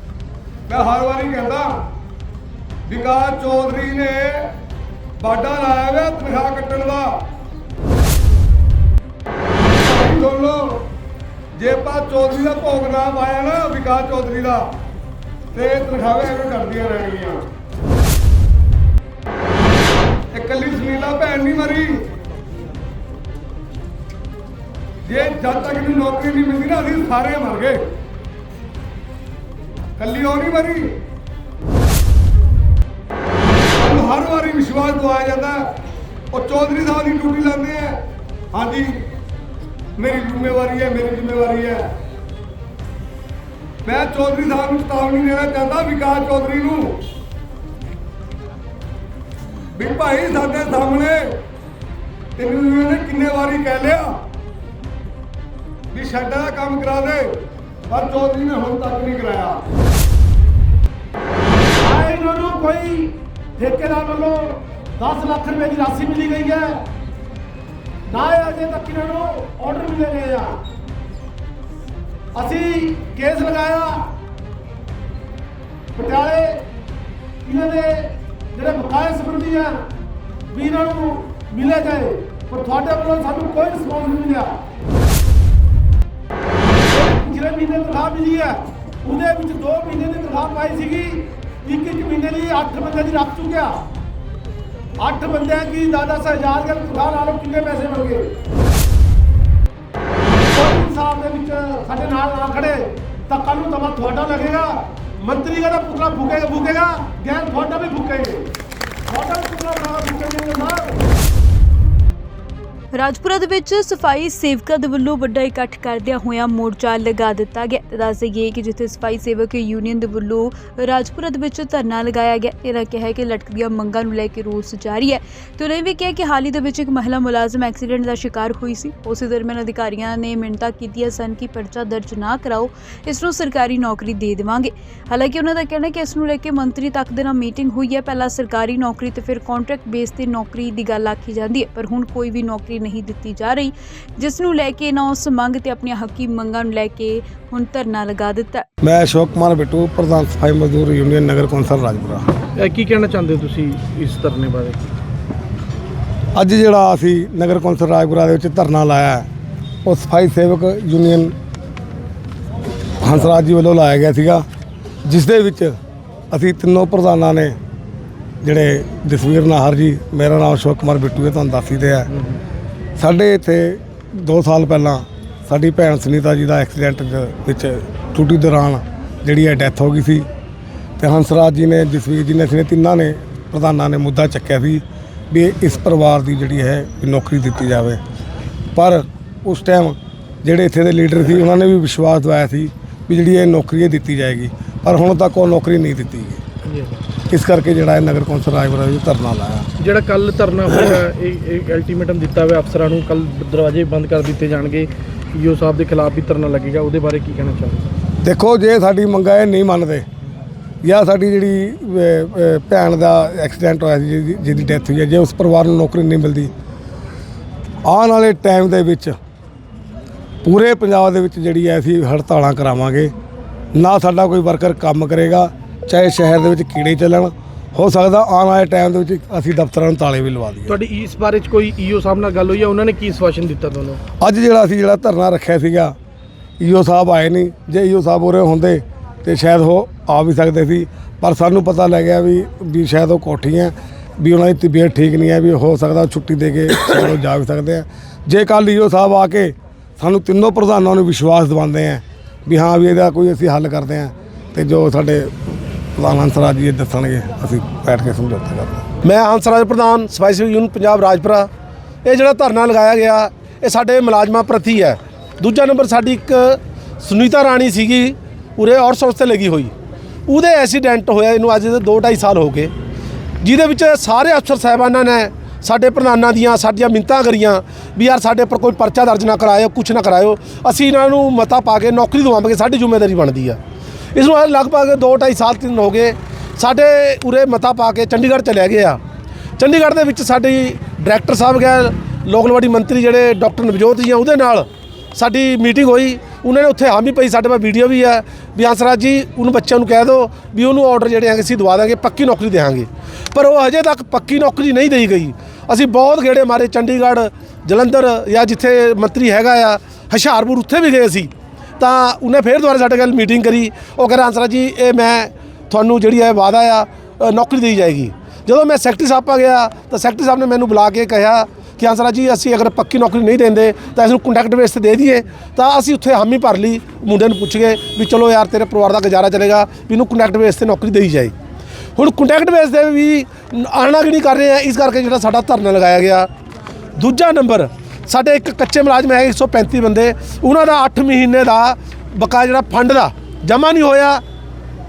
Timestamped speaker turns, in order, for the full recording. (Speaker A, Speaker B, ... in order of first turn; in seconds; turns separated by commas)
Speaker A: 0.7-1.7, Speaker A: 2.9-4.5, Speaker A: 5.2-7.2, Speaker A: 9.8-10.8, Speaker A: 11.5-14.7, Speaker A: 15.5-17.4, Speaker A: 20.3-22.0, Speaker A: 25.0-27.8, Speaker A: 30.0-30.9, Speaker A: 33.7-35.7, Speaker A: 36.3-38.0, Speaker A: 38.5-39.0, Speaker A: 40.0-41.9, Speaker A: 43.8-47.0, Speaker A: 49.7-51.4, Speaker A: 52.4-54.2, Speaker A: 55.9-57.3, Speaker A: 57.9-59.6, Speaker B: 61.8-66.8, Speaker B: 68.1-70.6, Speaker B: 72.3-74.1, Speaker B: 75.9-76.7, Speaker B: 77.4-79.8, Speaker B: 80.5-84.6, Speaker B: 86.9-93.8, Speaker B: 95.0-98.3, Speaker B: 100.5-108.5, Speaker B: 109.1-111.0, Speaker C: 112.9-148.7, Speaker D: 148.8-152.3, Speaker E: 152.6-154.8, Speaker D: 156.3-159.2, Speaker D: 159.8-161.3, Speaker D: 163.0-164.4, Speaker D: 165.0-165.8, Speaker D: 166.3-167.6, Speaker D: 168.4-172.1, Speaker D: 173.0-180.2, Speaker D: 181.0-188.0, Speaker D: 188.7-196.4, Speaker E: 196.7-197.0, Speaker D: 197.3-199.7, Speaker E: 199.8-207.9, Speaker D: 208.2-210.1, Speaker D: 210.8-216.5, Speaker D: 217.8-219.2, Speaker D: 220.4-223.1, Speaker D: 223.7-230.7, Speaker E: 230.7-234.0, Speaker D: 234.2-235.9, Speaker D: 236.6-255.3, Speaker D: 255.9-258.9, Speaker B: 259.0-261.5, Speaker B: 262.0-269.7, Speaker B: 270.3-272.7, Speaker B: 273.4-283.6, Speaker B: 284.1-289.0, Speaker B: 289.6-331.3, Speaker B: 331.9-336.3, Speaker B: 337.0-344.2